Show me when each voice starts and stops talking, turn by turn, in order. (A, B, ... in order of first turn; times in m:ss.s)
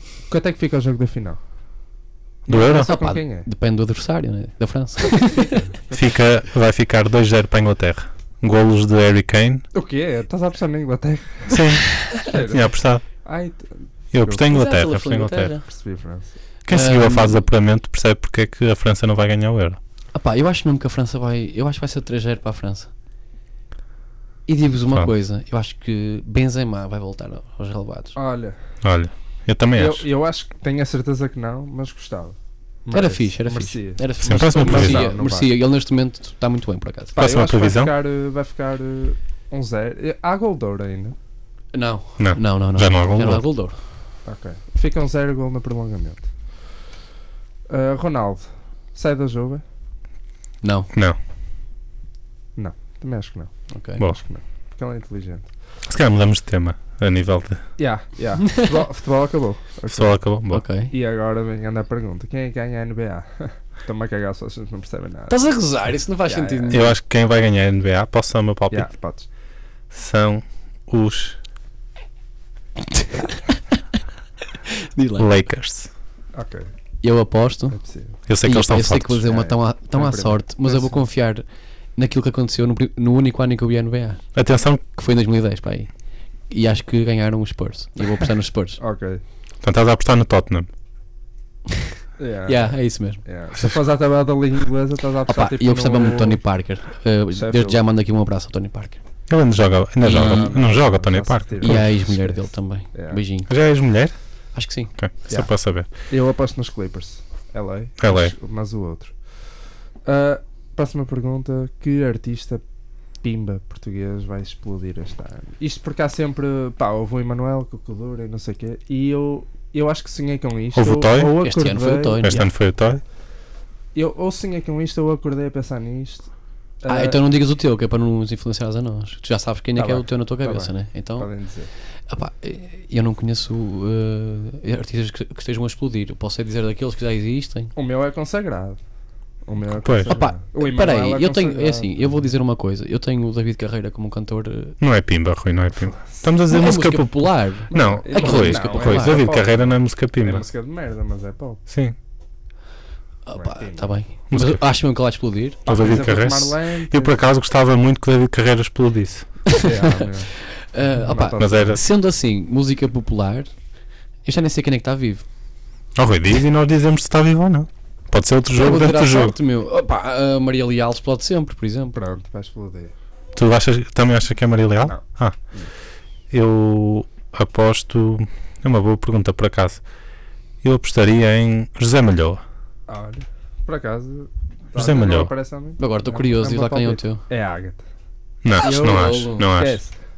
0:00.3-0:01.4 A
0:02.5-0:02.9 B
0:02.5-0:03.5 A
0:02.5-0:05.6 C
0:05.2-0:06.2 A
0:05.9-0:09.6 B
0:09.7-0:14.5 A
0:11.5-0:13.0 B
0:14.1-0:15.5 B
0:14.5-0:15.6 C
0:15.6-0:16.3 A
0:16.7-0:19.8 B
0:16.7-0:17.4 C
0:20.2-0:22.9 C
0:24.5-0:28.2 C
0:28.2-0:28.6 A
0:28.8-0:30.1 B
0:29.8-0:35.5 A
0:32.9-0:37.2 C
0:34.2-0:35.1 B
0:37.2-0:41.2 A
0:37.2-0:37.9 B
0:41.7-0:43.8 C
0:42.2-0:43.4 B
0:44.2-0:46.3 A
0:47.7-0:49.6 A
0:50.6-0:50.9 C
0:52.6-0:55.5 A
0:53.7-0:54.0 C
0:55.9-0:57.6 B
0:57.8-1:00.2 A
0:58.5-0:58.7 C
0:59.9-1:00.6 B
1:00.5-1:00.9 C
1:00.9-1:05.4 A
1:05.3-1:06.9 C
1:06.3-1:06.9 A
1:06.7-1:08.9 B
1:08.7-1:09.3 A
1:09.9-1:11.4 B
1:12.9-1:13.6 C
1:14.6-1:15.3 C
1:15.2-1:15.9 B
1:16.3-1:16.7 A
1:17.0-1:17.8 C
1:17.7-1:18.2 A
1:18.3-1:19.2 B
1:18.4-1:21.4 C
1:19.3-1:21.0 A
1:22.0-1:24.2 C
1:24.4-1:24.8 B
1:24.9-1:25.9 C
1:26.5-1:28.8 C
1:28.8-1:29.2 A
1:29.6-1:30.7 B
1:32.2-1:36.4 A
1:32.5-1:33.2 C
1:35.3-1:39.0 C
1:37.3-1:37.8 A
1:39.3-1:41.9 B
1:40.0-1:40.6 C
1:40.1-1:43.2 A
1:41.6-1:43.5 C
1:43.5-1:44.2 B
1:44.5-1:44.9 C
1:45.0-1:45.9 B
1:46.1-1:49.2 A
1:48.0-1:48.4 B
1:50.0-1:52.6 A
1:53.2-2:02.5 A
2:00.8-2:01.4 B
2:01.4-2:02.4 C
2:02.2-2:03.0 B
2:03.9-2:06.3 A
2:06.8-2:07.2 A
2:06.9-2:11.3 C
2:09.8-2:11.7 A
2:12.1-2:17.7 C
2:17.8-2:18.8 A
2:19.5-2:22.2 A
2:19.8-2:20.2 B
2:20.1-2:24.8 C
2:24.8-2:30.4 B
2:26.0-2:26.3 A
2:26.5-2:29.3 C
2:27.7-2:31.6 A
2:31.7-2:32.0 B
2:33.3-2:35.6 C
2:33.4-2:34.0 A
2:34.3-2:34.6 B
2:35.7-2:37.3 A
2:35.7-2:39.3 B
2:39.5-2:43.5 C
2:39.5-2:40.3 A
2:41.0-2:41.8 A
2:41.4-2:41.8 B
2:44.2-2:45.2 C
2:46.0-2:49.4 B
2:48.5-2:52.0 C
2:51.9-2:52.9 A
2:53.4-2:55.4 B
2:56.3-2:59.8 B
3:00.6-3:02.4 B
3:02.9-3:07.8 A
3:04.8-3:05.3 B
3:05.8-3:07.2 C
3:08.4-3:09.8 B
3:08.6-3:09.5 C
3:08.6-3:09.9 A